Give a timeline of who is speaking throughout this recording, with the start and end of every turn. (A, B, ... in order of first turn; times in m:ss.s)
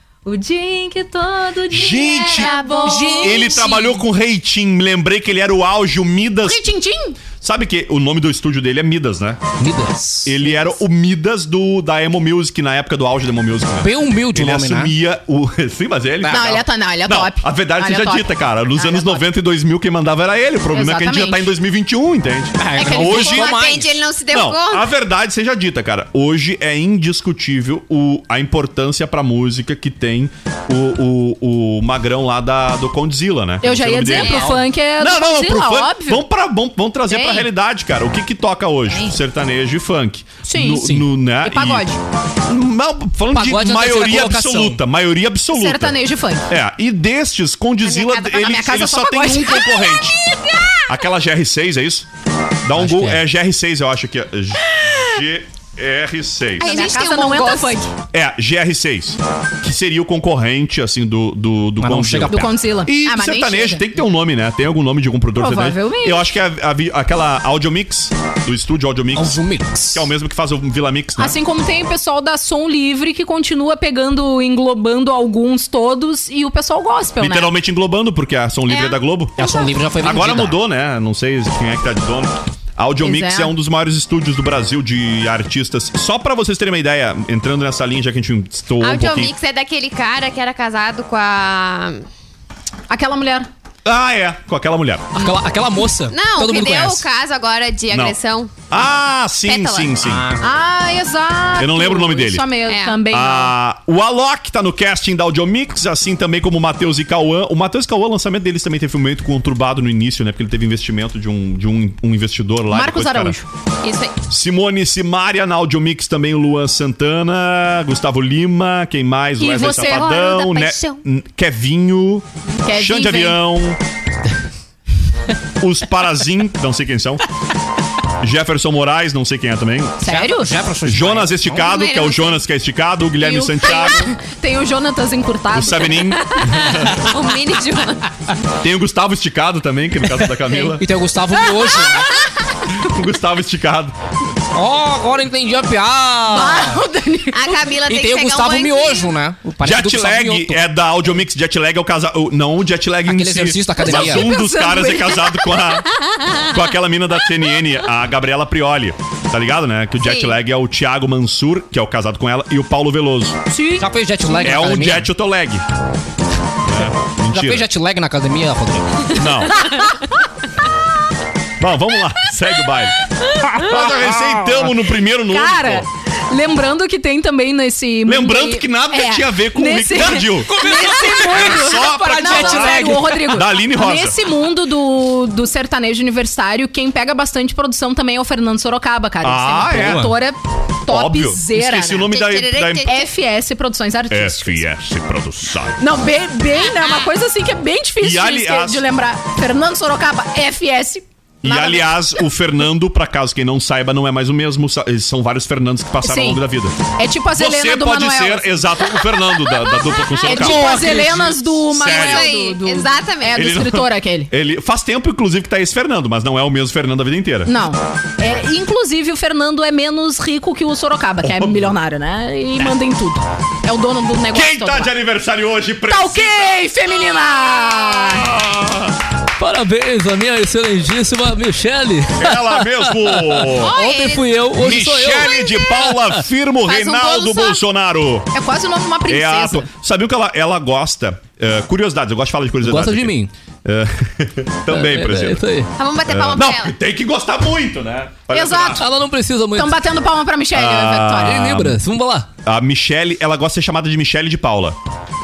0:00.2-0:03.8 A
0:01.7-0:02.5 B
0:01.9-0:03.9 C
0:03.1-0:06.7 B
0:06.4-0:07.2 A
0:07.4-0:09.4 B
0:09.6-0:10.3 D
0:10.2-0:23.6 B
0:13.8-0:14.9 D
0:16.2-0:16.6 D
0:16.3-0:19.2 A
0:20.7-0:21.5 A
0:22.6-0:24.0 D
0:22.7-0:23.5 A
0:23.2-0:24.9 C
0:24.3-0:41.9 B
0:33.6-0:36.2 A
0:34.2-0:34.6 D
0:37.1-0:37.5 A
0:38.9-0:39.1 A
0:40.4-0:42.0 A
0:40.8-0:41.0 D
0:42.4-0:50.2 B
0:43.3-0:44.8 D
0:45.5-0:46.4 A
0:47.9-0:50.8 A
0:50.9-0:52.1 B
0:52.6-0:56.7 B
0:52.8-0:53.2 D
0:56.6-0:57.8 C
0:56.6-0:57.9 A
0:58.1-1:09.4 B
1:01.8-1:02.5 D
1:02.3-1:03.9 A
1:05.4-1:06.3 A
1:09.1-1:10.1 D
1:09.9-1:11.4 B
1:11.2-1:17.5 A
1:17.2-1:29.3 B
1:18.7-1:19.0 C
1:19.4-1:20.6 D
1:23.0-1:23.5 A
1:28.8-1:32.1 C
1:32.9-1:33.5 A
1:33.8-1:35.1 B
1:35.1-1:37.0 D
1:36.1-1:38.5 C
1:37.9-1:38.2 B
1:38.7-1:40.3 B
1:39.4-1:40.0 C
1:40.0-1:40.5 D
1:40.4-1:43.5 A
1:41.6-1:42.5 B
1:42.7-1:43.0 C
1:43.1-1:53.4 B
1:52.7-1:53.5 A
1:53.8-1:54.2 C
1:54.3-2:03.8 B
1:59.4-2:00.1 A
1:59.5-2:01.0 C
2:02.6-2:03.4 A
2:05.6-2:07.2 B
2:08.2-2:10.0 B
2:10.0-2:10.5 A
2:10.0-2:11.7 D
2:10.8-2:14.1 B
2:11.6-2:12.4 C
2:13.2-2:16.7 A
2:15.5-2:16.7 B
2:16.6-2:18.1 C
2:18.6-2:20.8 B
2:20.7-2:22.2 D
2:22.7-2:24.0 B
2:24.5-2:26.8 D
2:26.3-2:27.6 A
2:27.3-2:29.1 C
2:27.8-2:30.6 D
2:29.6-2:35.9 B
2:33.1-2:34.3 D
2:33.8-2:35.4 A
2:36.1-2:36.5 C
2:36.5-2:43.4 B
2:40.0-2:40.3 C
2:43.5-2:43.9 A
2:43.8-2:45.1 D
2:44.4-2:45.6 B
2:46.6-2:47.7 B
2:47.3-2:49.2 D
2:49.1-2:49.6 B
2:51.6-2:53.0 B
2:53.5-2:55.9 B
2:55.2-3:12.1 A
2:58.0-3:04.2 B
3:00.5-3:01.5 D
3:02.2-3:03.2 D
3:09.2-3:10.1 B
3:09.8-3:10.1 D
3:10.9-3:12.9 B
3:12.1-3:13.1 C
3:12.8-3:14.6 A
3:14.1-3:15.8 B
3:15.8-3:22.2 A
3:18.0-3:18.9 B
3:21.4-3:26.8 B
3:26.0-3:26.4 A
3:26.9-3:28.6 A
3:27.3-3:32.3 B
3:30.0-3:30.7 C
3:30.2-3:34.3 A
3:31.8-3:33.5 C
3:33.3-3:37.5 B
3:37.4-3:44.9 A
3:41.2-3:41.7 B
3:44.3-3:46.6 B
3:45.9-3:48.3 A
3:47.9-3:48.9 B
3:49.4-3:56.1 D
3:52.2-3:53.7 B
3:53.5-3:54.4 C
3:54.5-3:58.3 B
3:55.2-3:55.7 C
3:56.6-3:57.6 C
3:58.3-3:59.7 A
3:59.1-4:05.4 B
4:02.6-4:03.3 D
4:04.7-4:05.7 D
4:05.8-4:06.7 C
4:06.1-4:08.8 B
4:08.3-4:08.8 A
4:08.8-4:09.8 D
4:09.5-4:11.6 A
4:10.5-4:11.8 B
4:11.2-4:12.3 D
4:12.4-4:14.8 B